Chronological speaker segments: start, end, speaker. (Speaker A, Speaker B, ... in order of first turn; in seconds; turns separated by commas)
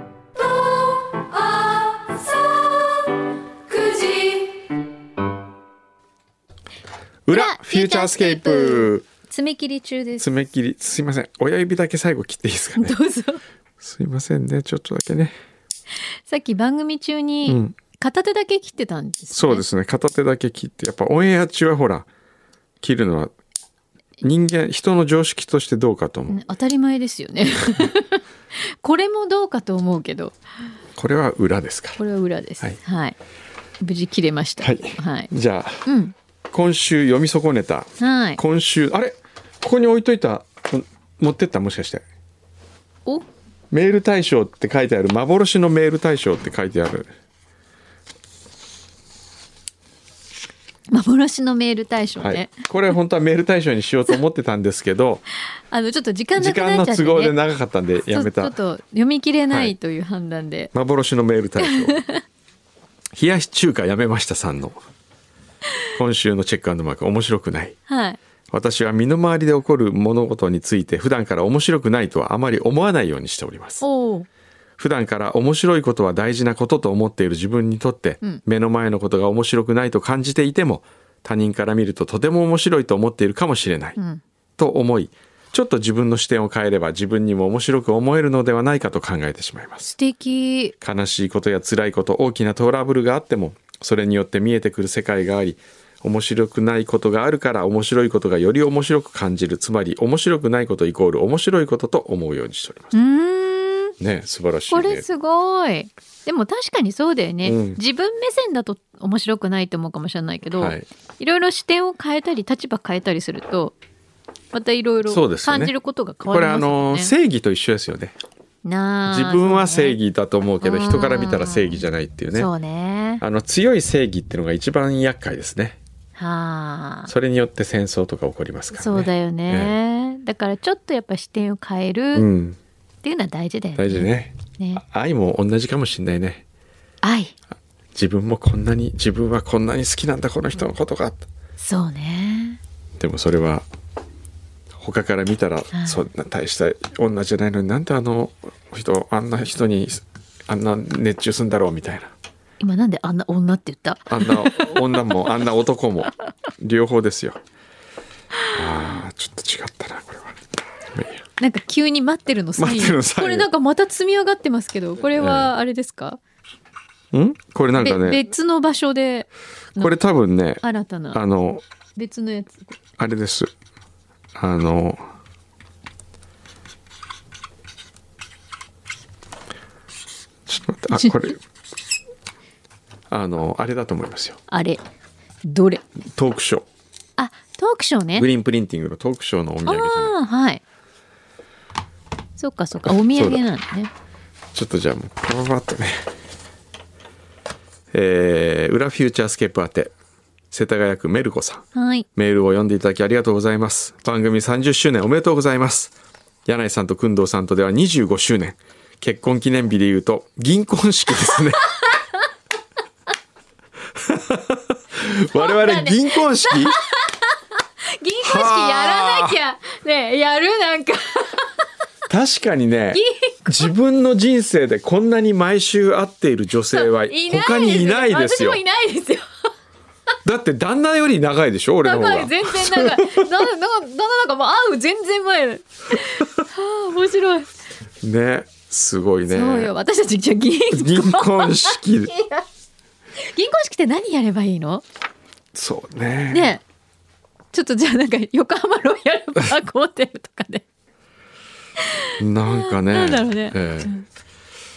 Speaker A: 0.4-3.1, Speaker A: 3.7-4.7, Speaker B: 7.2-9.0, Speaker A: 7.3-10.3, Speaker B: 10.2-13.0, Speaker A: 12.7-13.4, Speaker B: 13.8-15.3, Speaker A: 16.3-19.6, Speaker B: 17.4-17.7, Speaker B: 19.3-22.1, Speaker B: 22.8-23.3, Speaker B: 24.2-26.4, Speaker A: 26.3-30.3, Speaker B: 30.9-32.0, Speaker A: 32.0-33.1, Speaker A: 33.8-35.3, Speaker B: 34.6-35.8, Speaker A: 35.9-36.1, Speaker B: 36.5-42.0, Speaker A: 38.0-38.4, Speaker B: 43.7-47.1, Speaker A: 50.9-52.5, Speaker B: 52.2-55.2, Speaker A: 55.7-57.3, Speaker B: 56.4-58.5, Speaker A: 58.1-60.7, Speaker B: 60.7-62.0, Speaker A: 61.6-62.2, Speaker B: 63.1-64.8, Speaker B: 66.0-67.7, Speaker A: 67.9-68.2, Speaker B: 68.5-73.8, Speaker A: 73.8-74.3, Speaker B: 74.8-84.0, Speaker A: 84.0-84.2, Speaker B: 84.6-89.9, Speaker A: 89.9-90.7, Speaker B: 90.8-102.9, Speaker A: 102.9-104.0, Speaker B: 104.0-105.0, Speaker A: 104.7-113.8, Speaker B: 107.4-107.8, Speaker B: 110.5-110.8, Speaker A: 114.5-117.1, Speaker B: 115.1-118.1, Speaker A: 118.6-120.0, Speaker B: 119.1-122.5, Speaker A: 120.6-121.8, Speaker A: 122.3-123.2, Speaker B: 123.2-125.8, Speaker A: 126.2-127.1, Speaker B: 127.1-129.7, Speaker A: 128.7-132.3, Speaker B: 132.1-132.6, Speaker A: 133.0-134.8, Speaker B: 133.8-136.4, Speaker A: 137.0-137.3, Speaker B: 137.9-141.2, Speaker A: 141.6-142.6, Speaker B: 143.0-143.6, Speaker B: 144.8-152.1, Speaker A: 145.7-146.0, Speaker A: 152.6-155.3, Speaker B: 154.1-157.4, Speaker B: 158.5-160.4, Speaker B: 160.9-161.2, Speaker A: 161.4-166.2, Speaker B: 162.6-163.5, Speaker B: 165.2-165.5, Speaker B: 167.1-168.2, Speaker A: 167.8-169.9, Speaker B: 169.8-171.6, Speaker A: 170.6-171.2, Speaker A: 171.9-172.8, Speaker B: 173.0-173.5, Speaker B: 174.3-175.0, Speaker B: 180.5-181.4, Speaker B: 183.1-184.4, Speaker A: 184.5-184.8, Speaker A: 185.4-185.8, Speaker B: 186.1-186.6, Speaker A: 187.2-188.3, Speaker B: 188.2-190.1, Speaker A: 189.7-190.6, Speaker A: 192.4-193.9, Speaker B: 192.9-193.4, Speaker B: 194.5-196.1, Speaker B: 197.9-199.9, Speaker B: 200.5-201.6, Speaker A: 201.7-202.1, Speaker B: 202.2-205.9, Speaker B: 206.4-211.7, Speaker B: 214.0-216.8, Speaker A: 215.3-217.4, Speaker A: 217.9-221.6, Speaker B: 218.2-219.4, Speaker B: 222.1-228.6, Speaker A: 222.9-223.7, Speaker A: 226.7-229.2, Speaker B: 230.2-233.2, Speaker A: 231.8-237.5, Speaker B: 238.0-239.7, Speaker A: 239.3-242.4, Speaker B: 240.7-242.1, Speaker A: 243.2-244.8, Speaker B: 245.5-246.6, Speaker A: 246.3-246.6, Speaker A: 247.5-250.6, Speaker A: 251.8-254.0, Speaker B: 252.2-253.9